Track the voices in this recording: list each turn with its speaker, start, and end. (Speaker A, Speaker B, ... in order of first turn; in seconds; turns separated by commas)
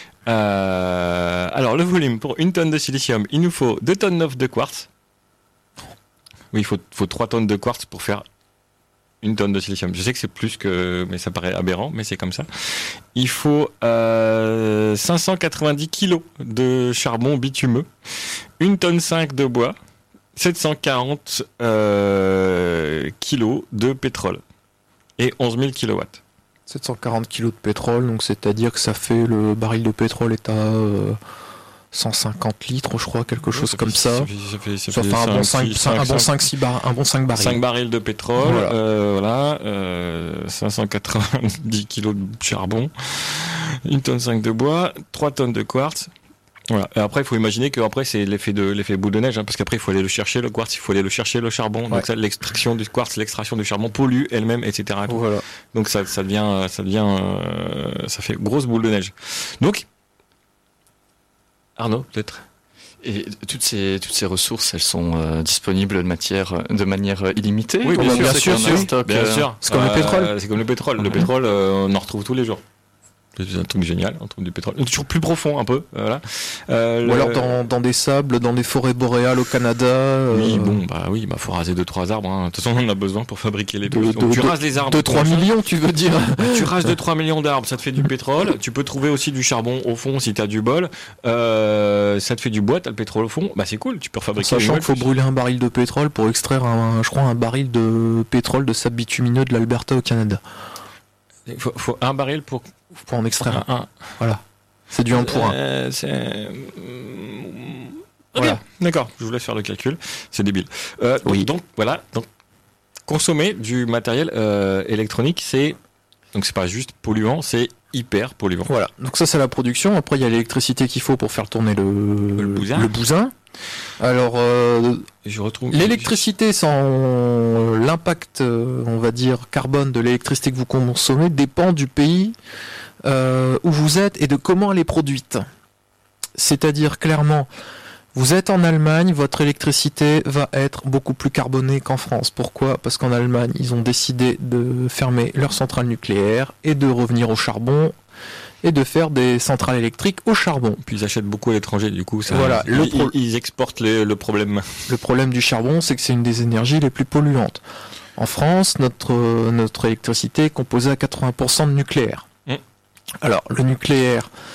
Speaker A: 0.3-4.9, Speaker A: 6.5-8.2, Speaker A: 9.2-19.8, Speaker A: 20.4-24.4, Speaker A: 25.2-26.2, Speaker B: 26.7-31.2, Speaker B: 31.9-34.3, Speaker A: 33.5-36.4, Speaker B: 34.9-37.6, Speaker A: 37.4-46.1, Speaker B: 38.4-38.8, Speaker A: 46.7-59.9, Speaker B: 55.1-55.4, Speaker A: 61.8-62.5, Speaker C: 63.0-69.5, Speaker A: 67.8-72.6, Speaker B: 67.9-68.9, Speaker B: 69.6-70.3, Speaker A: 73.4-77.7, Speaker B: 77.0-80.8, Speaker A: 80.3-85.5, Speaker B: 83.9-86.9, Speaker A: 86.4-95.1, Speaker B: 94.4-100.4, Speaker A: 101.5-102.8, Speaker B: 103.1-103.7, Speaker A: 103.5-104.1, Speaker B: 104.2-105.6, Speaker A: 105.1-112.3, Speaker B: 108.4-108.6, Speaker B: 111.2-111.5, Speaker A: 113.1-115.8, Speaker A: 116.3-118.7, Speaker B: 118.7-123.3, Speaker A: 122.4-122.9, Speaker B: 124.0-125.1, Speaker A: 125.2-126.2, Speaker B: 125.7-132.4, Speaker B: 133.0-135.5, Speaker B: 136.4-137.5, Speaker B: 138.1-148.0, Speaker B: 148.6-150.8, Speaker A: 150.8-154.9, Speaker B: 152.3-153.2, Speaker B: 154.9-157.6, Speaker B: 158.2-162.3, Speaker B: 163.2-164.3